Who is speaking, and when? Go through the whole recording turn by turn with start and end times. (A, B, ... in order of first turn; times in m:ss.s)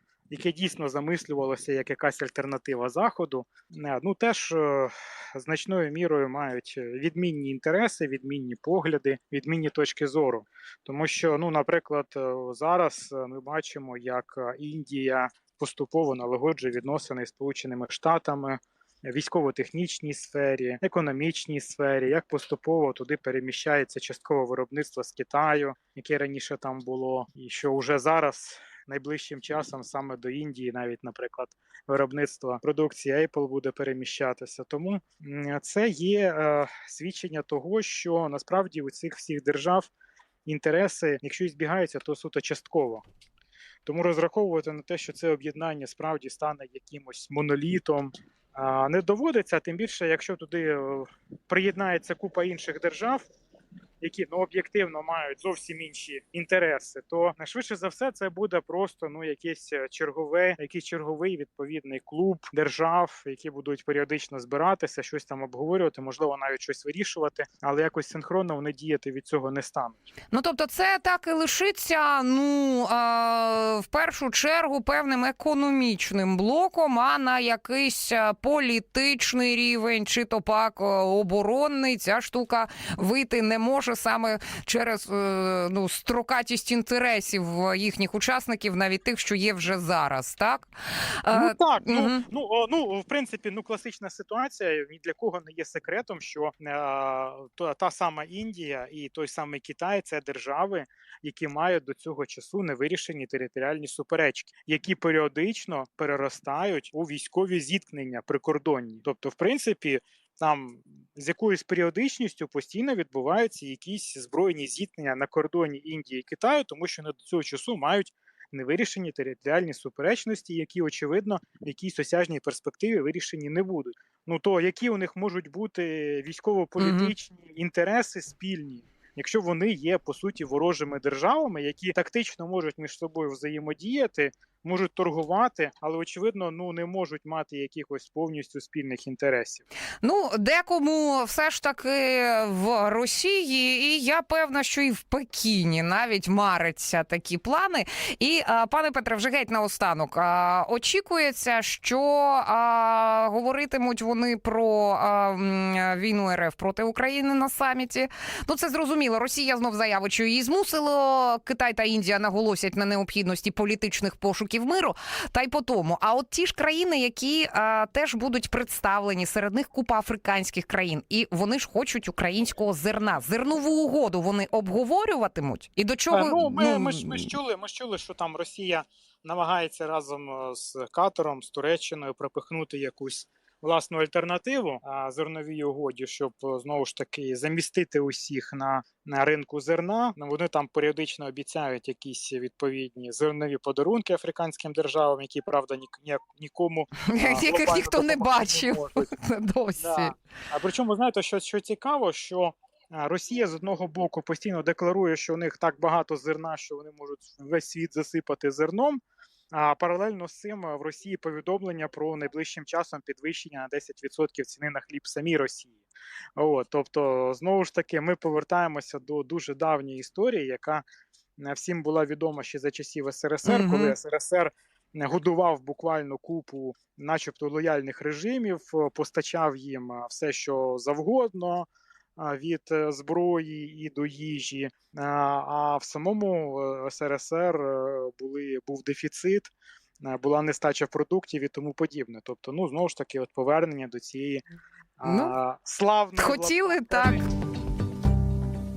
0:00.3-0:39.9 A
0:40.4-0:43.0 A
0:43.8-0:53.2 A
0:54.0-1:10.0 A
1:10.3-1:30.7 B
1:31.2-1:32.2 B
1:31.3-2:19.6 A
2:06.8-2:07.1 B
2:20.0-2:57.2 B
2:56.1-3:19.1 A
3:17.0-3:20.1 B
3:19.8-3:35.8 A
3:36.4-3:40.8 A
3:41.4-4:04.4 A
3:43.4-3:44.0 B
4:05.0-4:07.2 A
4:05.0-4:05.4 B
4:06.2-4:07.2 B